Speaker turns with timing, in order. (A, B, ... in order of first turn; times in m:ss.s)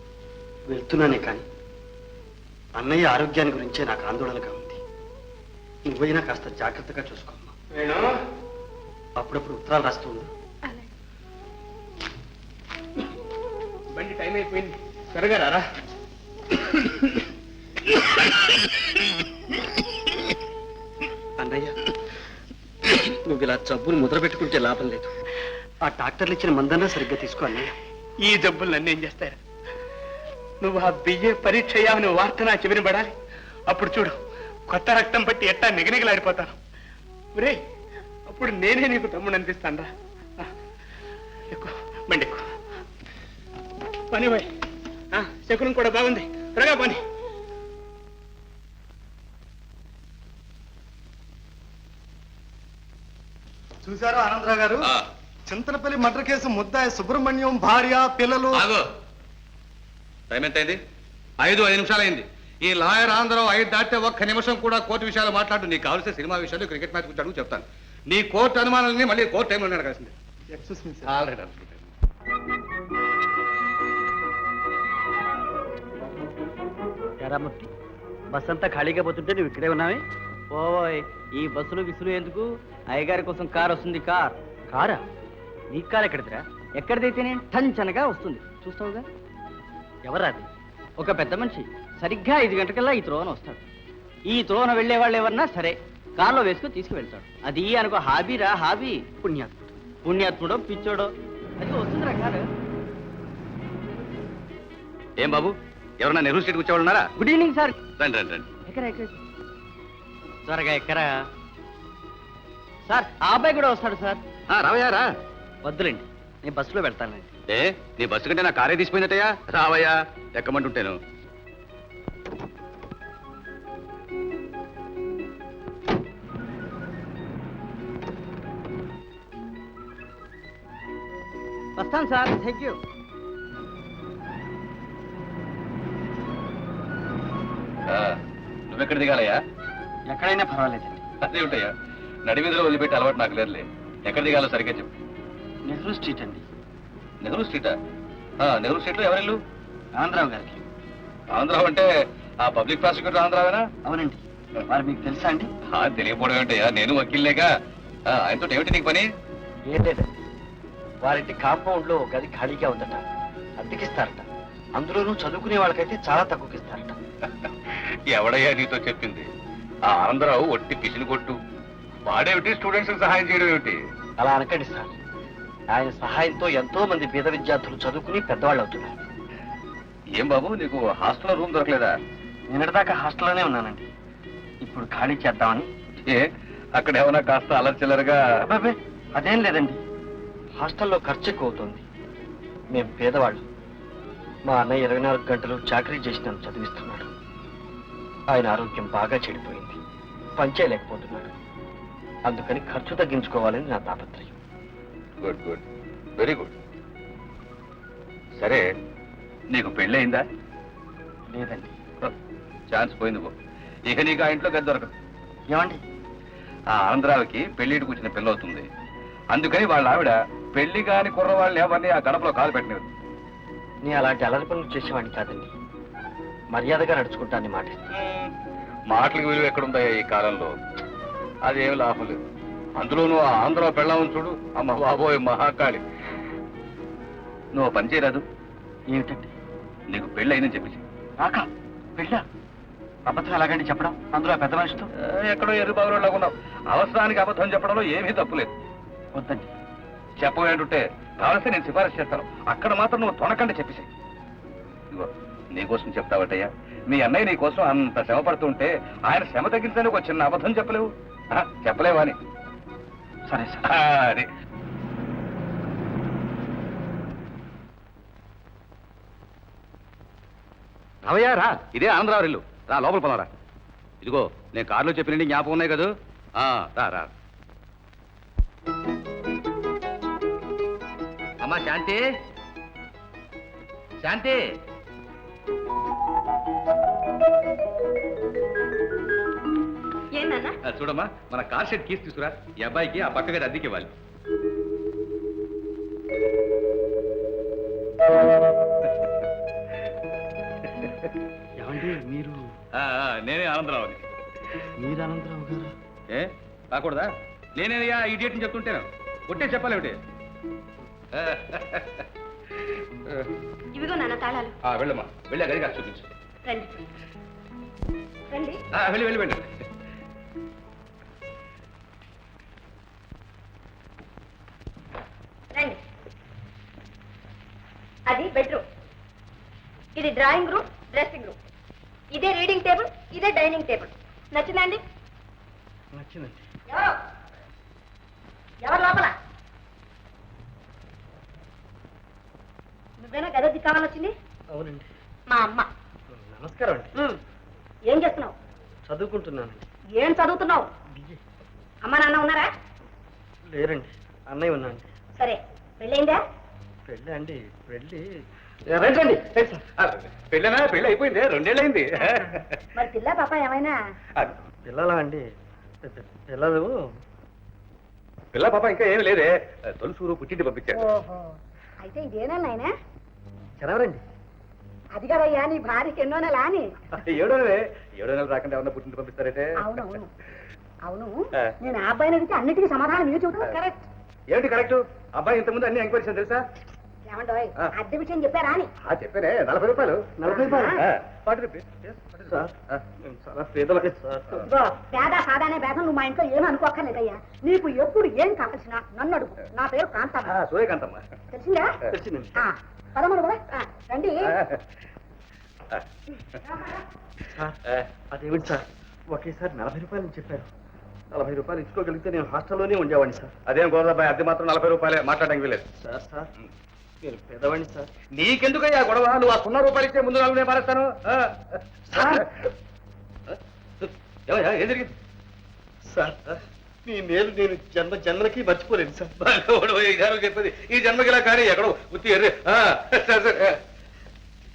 0:00.7-0:01.4 A
0:02.7-0:04.8 A
0:05.8-0:07.6 A
0:09.2-0:10.3 A
0:13.9-0:15.7 B
0:16.7-0:17.1 B
0:21.4-0:21.7 A
0:22.8-0:25.1 A
0:25.8-0:27.7 A
0:28.2-0:29.4 B
0:30.6-0:33.1 B
0:33.7-0:34.2 B
0:34.7-0:36.5 B
0:38.3-0:40.5 B
0:41.5-0:42.4 B
0:44.1-0:44.5 B
0:45.1-0:47.0 B
0:53.9-0:54.9 C
0:55.5-0:58.7 C
0:58.5-0:58.8 D
1:00.3-1:00.8 D
1:01.4-1:10.1 D
1:11.0-1:11.8 D
1:17.2-1:17.7 A
1:18.3-1:20.0 A
1:20.5-1:24.3 E
1:24.7-1:25.0 A
1:25.7-1:29.0 E
1:30.0-1:30.5 A
1:31.0-1:33.6 E
1:34.3-1:39.0 E
1:39.2-1:39.7 A
1:40.0-1:42.5 E
1:45.2-1:47.0 D
1:47.2-1:47.8 E
1:48.0-1:48.4 D
1:48.6-1:49.2 E
1:50.4-1:51.2 E
1:52.8-1:54.2 E
1:54.5-1:55.1 D
1:55.6-1:57.3 A
1:57.5-2:01.0 D
2:11.8-2:12.8 E
2:17.9-2:18.2 D
2:18.7-2:19.4 D
2:20.0-2:21.0 A
2:21.2-2:21.7 D
2:22.3-2:24.9 D
2:25.6-2:26.4 A
2:27.2-2:27.7 D
2:28.4-2:29.4 D
2:29.9-2:30.6 A
2:31.3-2:31.9 D
2:32.4-2:33.6 D
2:33.8-2:35.5 A
2:35.7-2:37.5 D
2:38.1-2:39.0 D
2:39.7-2:40.2 A
2:41.0-2:43.0 A
2:43.6-2:44.2 A
2:44.8-2:47.0 A
2:48.1-2:49.2 D
2:49.9-2:51.4 D
2:52.0-2:53.8 D
2:54.2-2:54.9 A
2:55.7-2:59.0 A
3:00.2-3:01.9 D
3:02.5-3:03.9 A
3:04.6-3:05.7 A
3:06.8-3:08.2 D
3:08.4-3:09.8 A
3:10.6-3:11.8 A
3:12.7-3:13.4 A
3:14.4-3:17.1 A
3:18.3-3:19.8 A
3:20.4-3:21.3 A
3:22.2-3:24.4 A
3:25.2-3:25.6 D
3:26.2-3:26.5 D
3:29.5-3:30.2 D
3:31.3-3:31.7 A
3:32.7-3:33.3 D
3:33.9-3:34.9 D
3:35.5-3:35.8 A
3:36.8-3:38.6 D
3:39.3-3:42.8 D
3:43.8-3:45.5 A
3:46.5-3:47.9 A
3:47.9-3:48.3 D
3:48.9-3:50.5 D
3:51.4-3:52.2 D
3:52.8-3:55.8 D
3:57.5-3:58.2 D
3:58.9-3:59.3 A
3:59.9-4:00.8 D
4:01.2-4:02.2 A
4:03.0-4:04.9 A
4:05.0-4:08.5 D
4:09.1-4:09.5 A
4:10.2-4:13.9 D
4:14.9-4:22.2 D
4:23.3-4:23.6 A
4:23.6-4:24.3 D
4:31.0-4:33.3 D
4:34.0-4:37.1 D
4:41.4-4:42.0 D
4:44.0-4:44.4 D
4:50.1-4:50.5 F
4:50.6-4:53.9 D
5:00.8-5:01.1 D
5:01.6-5:02.4 A
5:02.7-5:04.0 D
5:04.8-5:05.7 A
5:06.1-5:10.0 D
5:11.1-5:12.1 D
5:13.7-5:14.5 F
5:14.6-5:16.1 D
5:16.4-5:16.8 F
5:18.3-5:18.6 F
5:18.7-5:19.5 D
5:25.5-5:25.8 F
5:28.1-5:28.6 F
5:30.0-5:31.4 F
5:32.1-5:34.8 F
5:35.9-5:36.4 A
5:36.7-5:37.0 F
5:38.6-5:39.1 F
5:43.0-5:44.1 F
5:44.5-5:44.9 A
5:45.3-5:45.7 F
5:46.1-5:46.9 A
5:47.9-5:48.3 F
5:48.8-5:49.6 A
5:50.0-5:50.7 F
5:50.9-5:51.2 A
5:51.8-5:52.5 F
5:53.5-5:54.9 A
5:55.2-5:56.2 F
5:56.9-5:58.0 A
5:58.7-5:59.6 A
5:59.8-6:02.6 D
6:02.0-6:03.8 F
6:04.6-6:05.2 A
6:05.8-6:06.8 A
6:08.3-6:10.9 D
6:10.7-6:12.7 F
6:13.6-6:14.0 A
6:14.9-6:16.7 F
6:17.0-6:19.9 D
6:19.6-6:20.1 F
6:20.8-6:23.9 F
6:24.3-6:26.4 D
6:27.1-6:28.7 F
6:28.9-6:30.1 D
6:30.2-6:30.8 A
6:30.3-6:30.8 F
6:30.8-6:32.8 D
6:32.3-6:34.4 A
6:34.3-6:40.3 F
6:40.2-6:41.0 D
6:41.3-6:41.7 F
6:41.9-6:42.4 A
6:42.4-6:44.3 F
6:44.3-6:44.6 D
6:47.3-6:47.6 A
6:48.1-6:50.5 A
6:51.1-6:53.3 A
6:53.4-6:55.6 D
6:55.8-6:56.3 A
6:57.0-6:57.9 A
6:58.1-7:02.2 D
7:01.9-7:02.3 A
7:03.3-7:04.9 D
7:05.8-7:09.2 A
7:09.2-7:13.6 D